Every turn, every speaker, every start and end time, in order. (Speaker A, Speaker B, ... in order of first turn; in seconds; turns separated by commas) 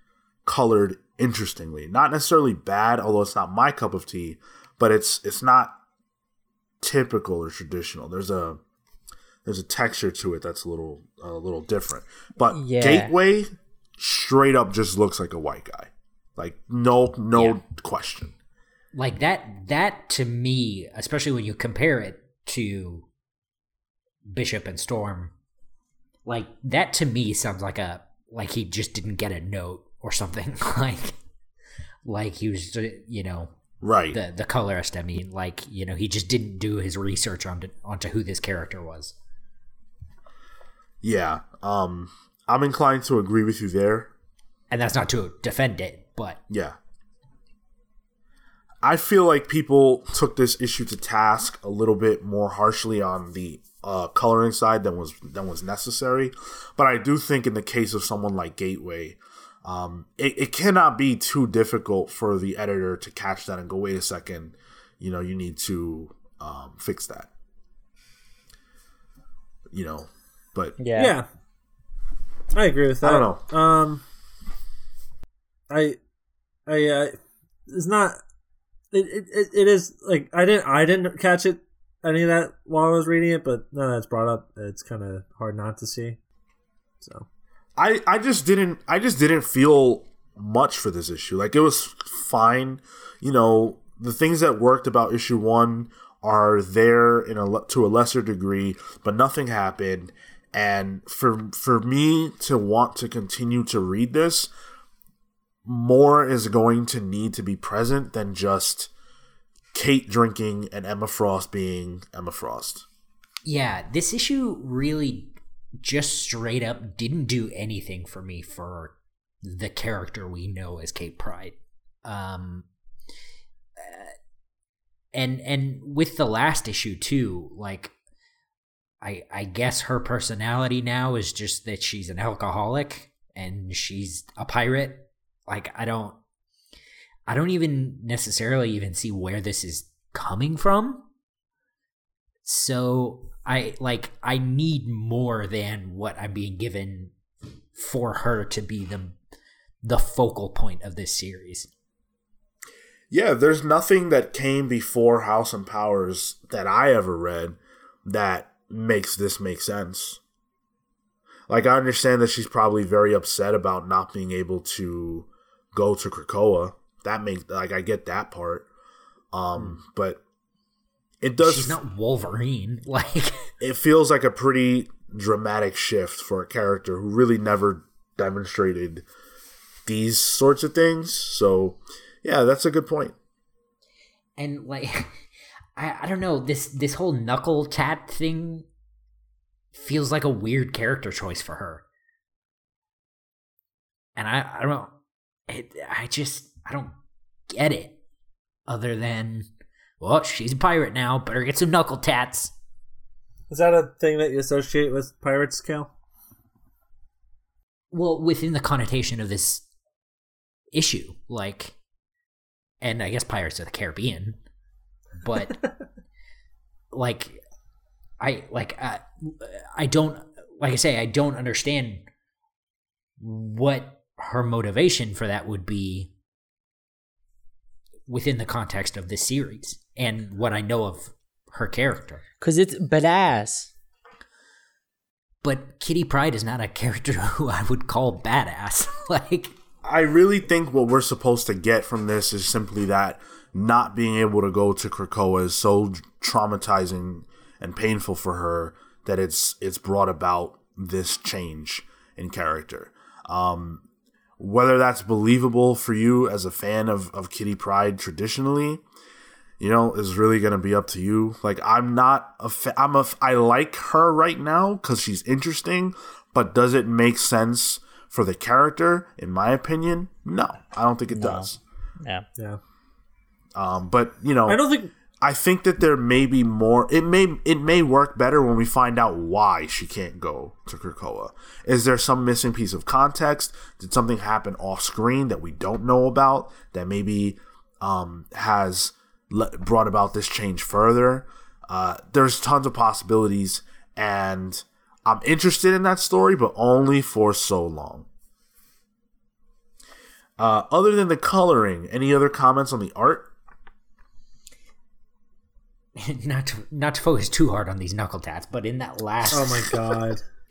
Speaker A: 0.4-5.8, Speaker A: 6.8-8.6, Speaker A: 9.4-18.3, Speaker B: 12.5-13.1, Speaker C: 18.9-23.1, Speaker C: 24.3-25.3, Speaker C: 26.3-31.1, Speaker C: 32.0-33.5, Speaker A: 33.8-34.2, Speaker C: 34.1-39.1, Speaker A: 41.0-44.1, Speaker C: 44.7-46.4, Speaker A: 46.5-46.8, Speaker A: 48.8-67.3, Speaker A: 69.7-70.8, Speaker B: 70.8-71.2, Speaker D: 71.0-71.3, Speaker D: 72.5-74.0, Speaker A: 73.0-73.4, Speaker D: 75.7-76.0, Speaker D: 76.7-77.2, Speaker D: 77.7-78.2, Speaker D: 78.9-86.2, Speaker D: 87.0-87.3, Speaker A: 87.8-104.5, Speaker A: 105.6-108.9, Speaker A: 109.7-112.8, Speaker C: 113.4-122.7, Speaker C: 123.8-124.1, Speaker C: 125.1-127.9, Speaker C: 129.0-136.2, Speaker C: 137.3-141.1, Speaker C: 142.4-147.1, Speaker C: 147.7-149.1, Speaker C: 149.8-151.7, Speaker A: 153.1-160.2, Speaker A: 161.5-168.7, Speaker A: 169.3-170.2, Speaker A: 171.2-171.8, Speaker C: 171.4-173.5, Speaker A: 173.6-179.1, Speaker A: 179.8-183.1, Speaker C: 184.4-185.1, Speaker C: 185.8-188.7, Speaker C: 189.7-191.8, Speaker C: 194.2-194.9, Speaker C: 195.5-196.9, Speaker C: 197.5-198.0, Speaker C: 198.7-199.5, Speaker C: 200.0-202.5, Speaker D: 203.5-205.9, Speaker C: 207.9-209.6, Speaker C: 210.7-211.8, Speaker C: 212.8-214.4, Speaker C: 215.2-215.7, Speaker C: 216.9-217.4, Speaker C: 218.2-222.1, Speaker C: 223.2-226.1, Speaker C: 228.1-232.2, Speaker B: 232.4-233.7, Speaker C: 235.4-239.5, Speaker A: 239.8-253.8, Speaker A: 254.4-258.8, Speaker A: 259.6-271.6, Speaker B: 271.1-271.5, Speaker A: 273.6-274.6, Speaker D: 274.5-274.9, Speaker A: 275.2-298.1, Speaker A: 300.4-303.3, Speaker C: 305.9-309.9, Speaker D: 309.3-310.2